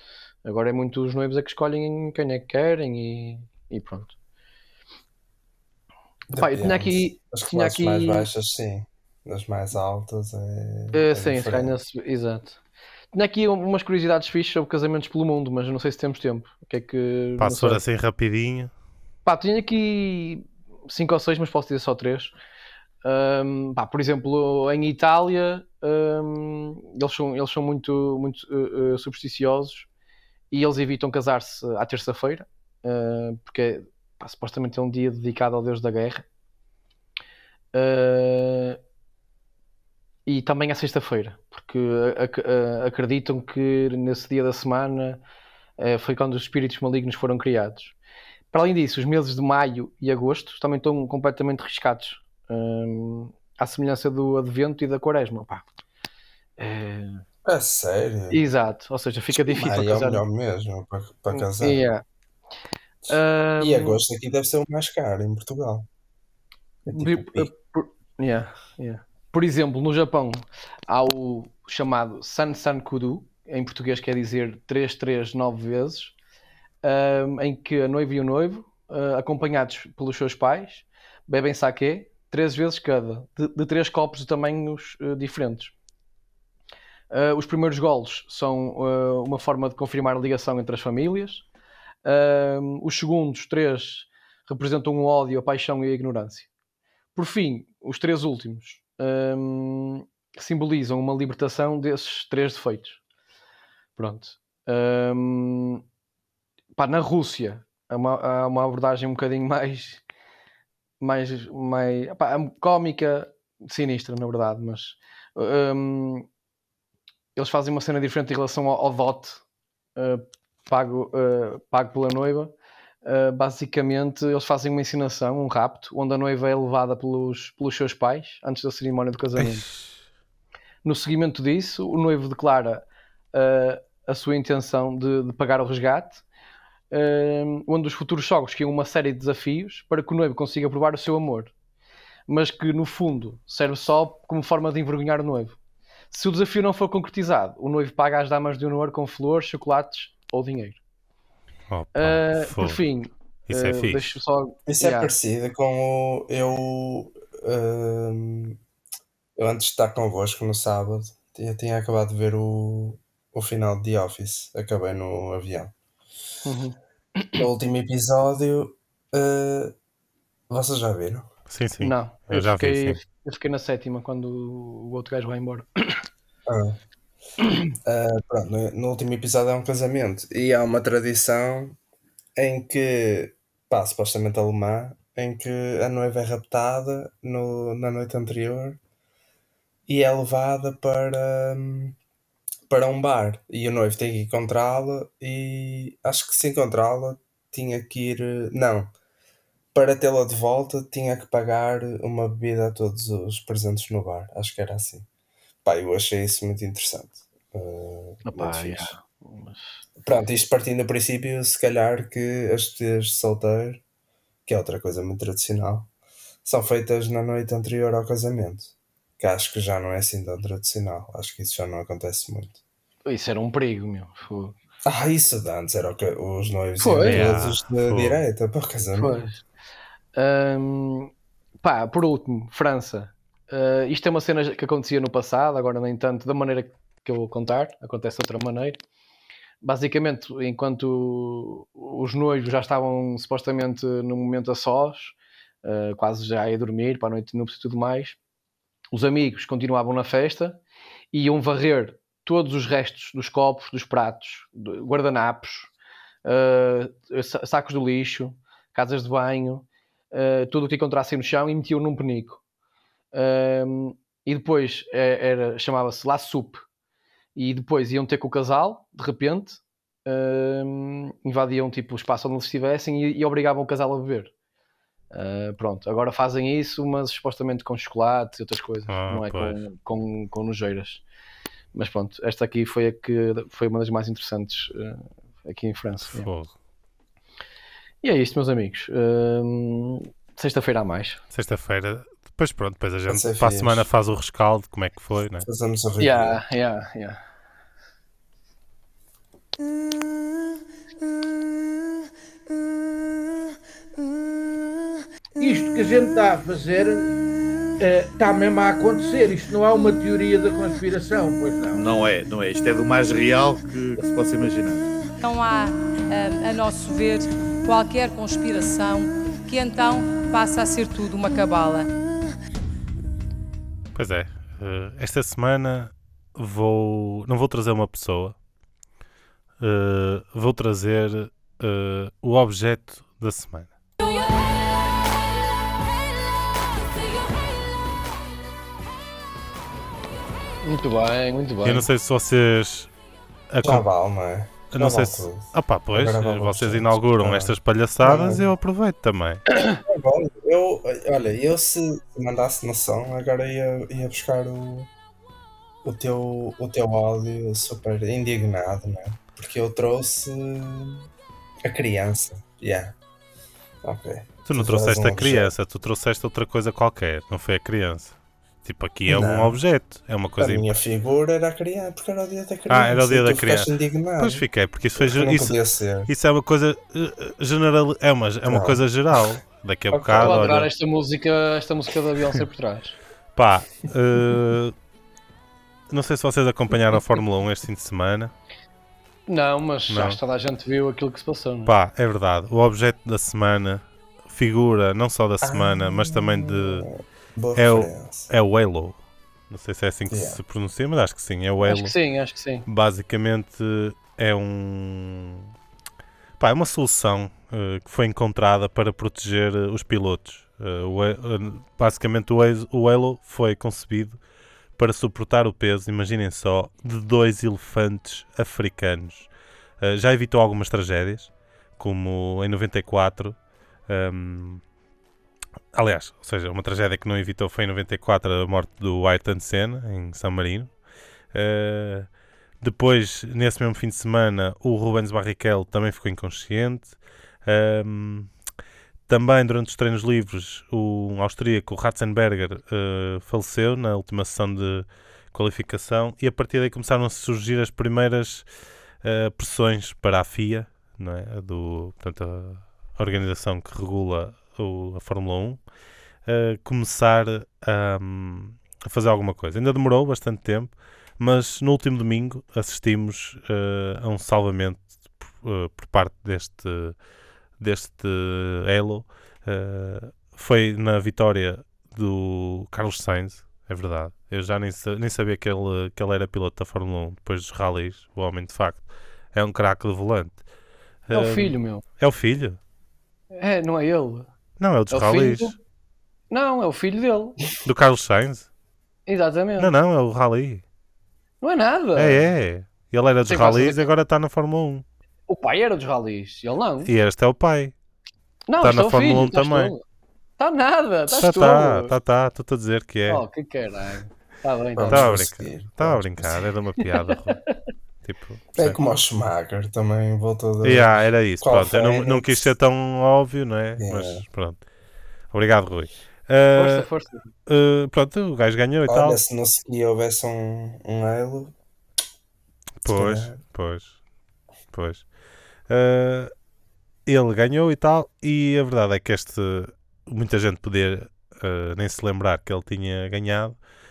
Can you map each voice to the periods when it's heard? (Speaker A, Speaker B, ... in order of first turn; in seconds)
Speaker A: 0.4-4.1, 6.4-8.3, 10.9-12.6, 13.1-17.8, 19.2-22.3, 23.0-29.9, 30.5-36.2, 37.7-38.8, 40.2-45.2, 45.8-47.9, 48.5-55.7, 56.6-57.2, 58.3-60.2, 61.3-62.0, 63.1-64.0, 66.9-76.1, 76.8-85.7, 87.1-91.4, 92.0-96.5, 97.1-103.0, 104.0-105.8, 106.7-110.0, 111.0-116.3, 117.3-119.4, 120.0-129.7, 130.8-136.2, 136.9-141.5, 142.3-145.6, 146.1-150.8, 151.9-155.1, 166.4-167.4, 171.8-176.0, 208.2-209.6, 223.1-224.6, 226.8-227.2, 228.9-229.4, 230.1-238.8, 239.6-248.2, 248.9-250.6, 251.1-255.7, 256.2-262.4, 263.1-266.6, 267.3-274.3, 275.1-281.0, 281.7-286.3, 288.0-291.2, 296.0-297.2, 340.6-341.9, 349.5-349.8, 380.2-382.9, 389.3-391.7, 401.6-402.6, 481.1-481.8, 483.3-484.3, 484.9-485.6, 486.3-487.4, 489.1-489.7, 491.4-492.3, 493.3-493.8, 495.3-496.9, 498.5-499.8, 500.4-501.9, 503.1-505.1, 507.1-507.6, 516.5-517.3
Speaker B: 6.3-11.8, 57.4-58.4, 59.3-61.8, 63.0-65.9, 66.8-67.5, 154.7-158.6, 159.3-165.7, 167.4-169.7, 170.5-171.3, 176.4-176.8, 177.8-181.8, 182.3-188.8, 189.9-191.9, 192.7-198.9, 199.7-205.1, 205.6-208.9, 210.0-213.8, 214.4-215.9, 216.4-222.6, 224.8-229.2, 293.1-293.9, 295.4-296.4, 343.6-348.5, 349.8-354.9, 355.8-361.1, 361.6-362.9, 363.8-365.5, 369.1-369.6, 370.4-374.4, 375.0-376.1, 378.4-379.2, 379.9-380.6, 395.4-398.3, 400.1-400.4, 504.8-506.4, 508.6-512.5, 513.8-514.2, 518.9-521.5, 522.8-523.4
Speaker C: 17.4-18.7, 129.4-129.9, 151.7-152.8, 153.5-154.2, 171.5-173.0, 227.0-228.2, 278.9-279.6, 286.1-286.5, 291.3-295.5, 323.9-328.3, 329.6-333.7, 341.6-342.9, 343.5-343.9, 344.7-349.4, 364.4-370.7, 372.7-380.7, 383.3-384.7, 385.9-388.3, 389.9-390.2, 391.6-396.9, 397.5-399.0, 399.5-401.9, 402.7-405.5, 406.4-414.2, 414.8-419.3, 419.8-423.4, 423.9-424.6, 425.7-430.7, 431.3-432.1, 432.6-438.3, 439.1-448.4, 449.0-455.6, 456.2-466.9, 467.6-480.4, 481.1-482.6, 484.6-485.5, 487.6-488.5, 489.6-490.6, 491.9-494.8, 496.8-497.7, 498.6-499.7, 501.2-503.2, 504.9-507.4, 508.0-509.0, 510.6-514.6, 515.3-516.9, 517.5-519.2, 522.8-523.9, 524.7-525.0, 525.7-526.3, 527.0-533.5
Speaker D: 305.4-307.1, 307.8-311.8
Speaker E: 311.7-314.8
Speaker F: 315.2-321.9